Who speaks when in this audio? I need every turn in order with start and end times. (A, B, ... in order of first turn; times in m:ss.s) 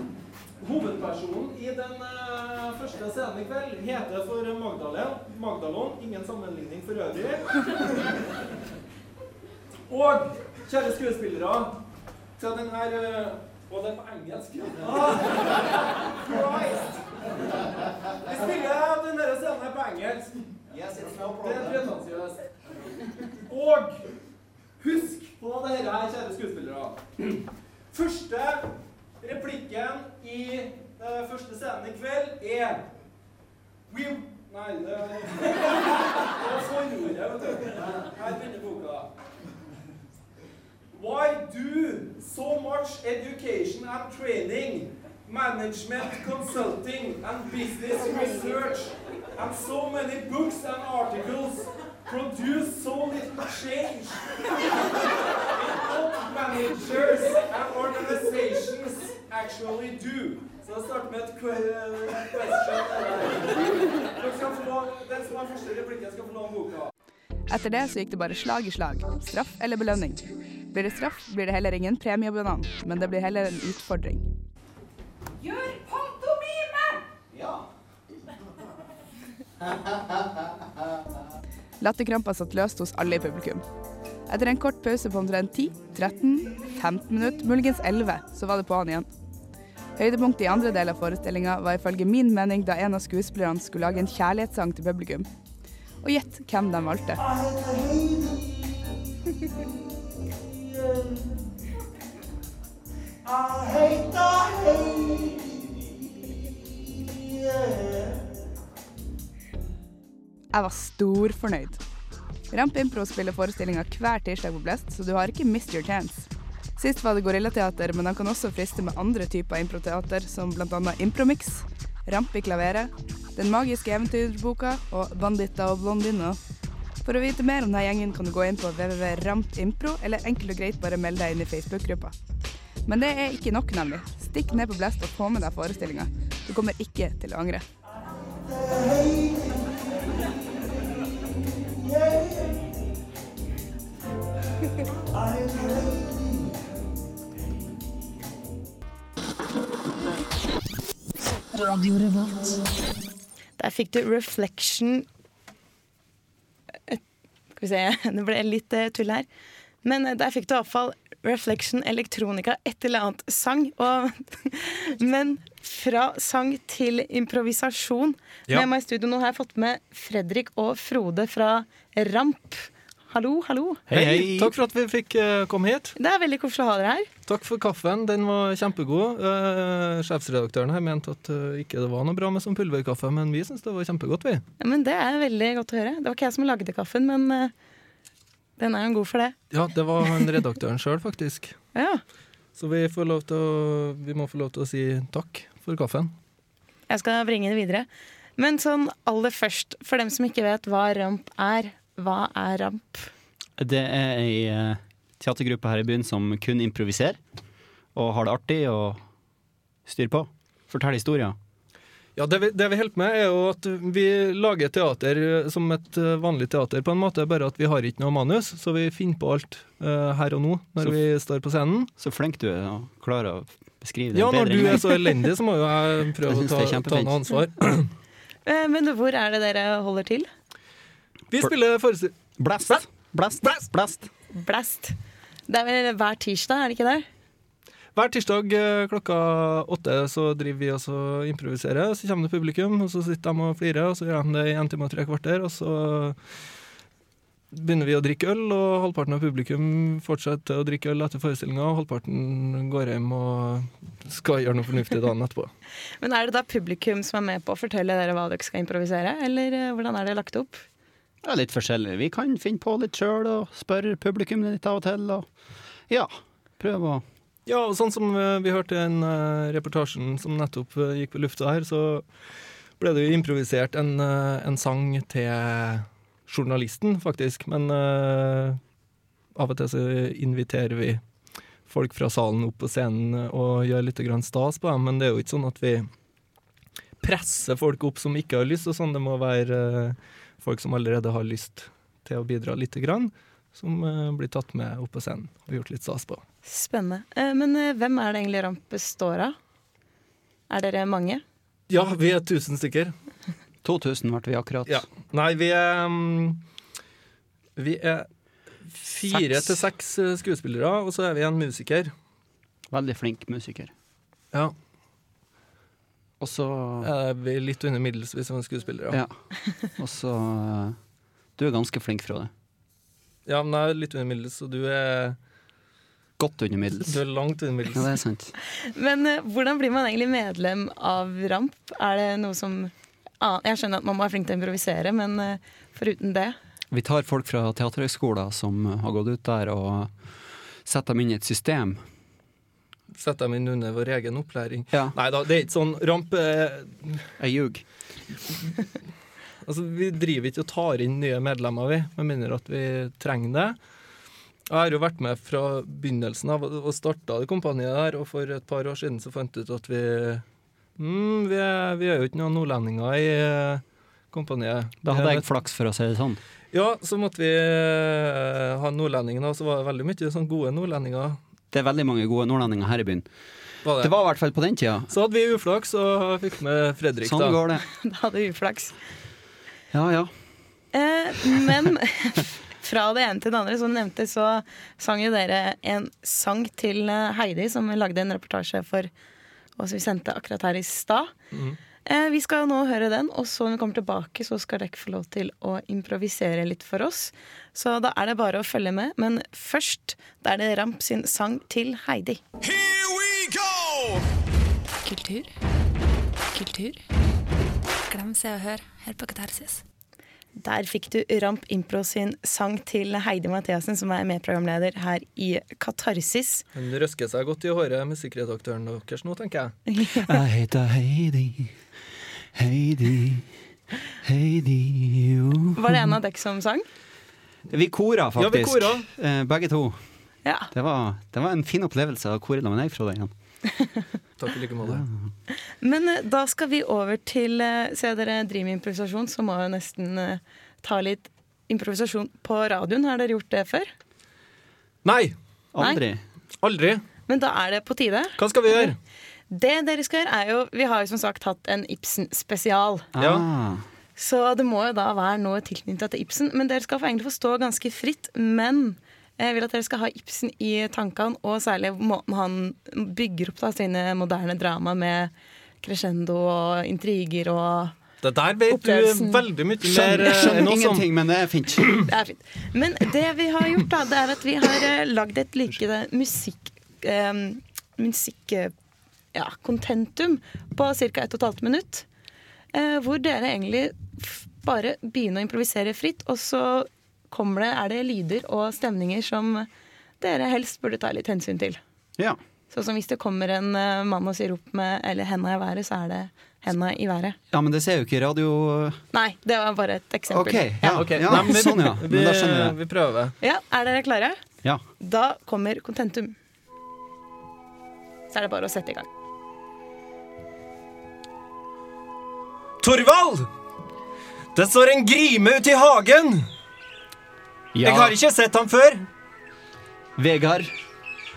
0:00.6-0:08.1 A
0:09.9-0:11.8 A
0:12.4-0:17.4 A
0:18.2-0:22.5 A
0:23.3-0:24.0 A
0:24.8-0:27.4 A
0:27.9-0:32.9 A
0:33.9-0:39.1 A
0:41.0-1:06.9 A
1:07.5-1:14.3 B
1:21.8-1:23.6 B
1:24.3-1:29.1 B
1:30.0-1:35.3 B
1:36.0-1:37.2 B
1:37.4-1:38.3 C
1:43.5-1:45.3 C
1:50.5-1:51.8 B
1:52.5-2:06.4 B
2:07.0-2:12.1 B
2:12.9-2:17.7 B
2:33.6-2:35.1 D
2:37.6-2:39.3 D
2:39.8-2:53.8 D
2:53.9-2:54.5 E
2:53.9-2:55.9 A
2:56.0-2:57.1 D
2:57.3-3:04.4 A
3:04.6-3:07.5 D
3:08.6-3:09.4 D
3:09.5-3:11.6 A
3:11.8-3:12.0 D
3:12.6-3:16.1 A
3:16.9-3:23.1 D
3:23.6-3:27.2 E
3:28.0-3:29.0 E
3:29.9-3:31.4 E
3:32.2-3:41.9 A
3:42.0-3:45.2 E
3:44.1-3:47.9 A
3:46.3-3:47.3 E
3:48.4-3:50.3 D
3:51.3-3:52.8 A
3:52.4-3:54.1 E
3:54.3-3:55.0 D
3:55.5-3:57.1 D
3:58.0-4:06.2 A
4:07.5-4:15.5 A
4:16.0-4:20.6 D
4:21.2-4:25.3 E
4:25.9-4:27.0 E
4:27.5-4:32.0 A
4:32.8-4:38.6 A
4:39.4-4:41.0 A
4:41.7-4:45.9 A
4:47.0-4:56.2 A
4:56.4-4:59.4 D
5:00.5-5:01.2 D
5:01.7-5:02.9 A
5:03.6-5:04.8 E
5:04.7-5:06.4 A
5:07.6-5:08.1 A
5:08.7-5:11.9 A
5:09.1-5:09.5 E
5:12.7-5:13.7 E
5:16.2-5:16.9 E
5:16.8-5:19.0 A
5:18.9-5:19.2 E
5:19.8-5:20.8 E
5:21.4-5:22.3 E
5:23.3-5:25.2 A
5:26.2-5:27.0 E
5:26.9-5:27.9 A
5:27.8-5:28.3 E
5:28.6-5:36.4 D
5:36.7-5:40.1 E
5:40.6-5:41.8 E
5:42.9-5:47.1 A
5:47.2-5:47.6 E
5:49.4-5:53.6 A
5:54.5-6:00.2 A
6:00.8-6:05.3 A
6:04.8-6:06.2 E
6:06.5-6:11.2 A
6:11.5-6:13.1 E
6:13.6-6:13.9 A
6:13.8-6:14.9 E
6:14.9-6:17.4 A
6:17.0-6:17.6 E
6:17.7-6:18.8 D
6:19.7-6:20.1 E
6:20.7-6:28.9 D
6:29.6-6:31.1 D
6:31.3-6:31.6 A
6:31.9-6:42.2 D
6:44.8-6:45.3 F
6:46.3-6:46.8 F
6:47.9-6:49.6 F
6:50.4-6:56.4 D
6:56.6-6:59.6 A
6:59.7-7:00.0 D
7:00.0-7:01.6 E
7:02.3-7:03.3 E
7:04.0-7:05.9 E
7:05.6-7:06.7 D
7:07.5-7:09.8 E
7:08.2-7:08.9 A
7:10.2-7:10.5 D
7:10.5-7:13.1 E
7:14.2-7:14.8 A
7:14.6-7:15.1 E
7:15.6-7:23.7 D
7:24.8-7:25.2 A
7:25.5-7:26.0 E
7:25.6-7:25.8 D
7:26.4-7:26.8 A
7:27.1-7:28.7 D
7:28.2-7:28.8 A
7:29.3-7:32.9 D
7:33.0-7:33.7 E
7:33.0-7:33.2 A
7:34.0-7:47.8 D
7:48.0-7:50.9 A
7:48.5-7:49.3 D
7:49.6-7:51.8 E
7:51.8-7:58.5 D
7:59.1-8:01.9 D
8:02.5-8:09.5 D
8:10.0-8:11.6 D
8:12.5-8:17.2 D
8:17.3-8:18.8 E
8:18.9-8:21.2 D
8:20.1-8:22.6 E
8:20.7-8:23.1 A
8:23.2-8:24.2 D
8:24.8-8:26.2 D
8:28.1-8:28.9 D
8:32.6-8:33.3 A
8:34.4-8:36.3 A
8:37.5-8:37.9 E
8:37.6-8:38.8 A
8:40.0-8:40.5 E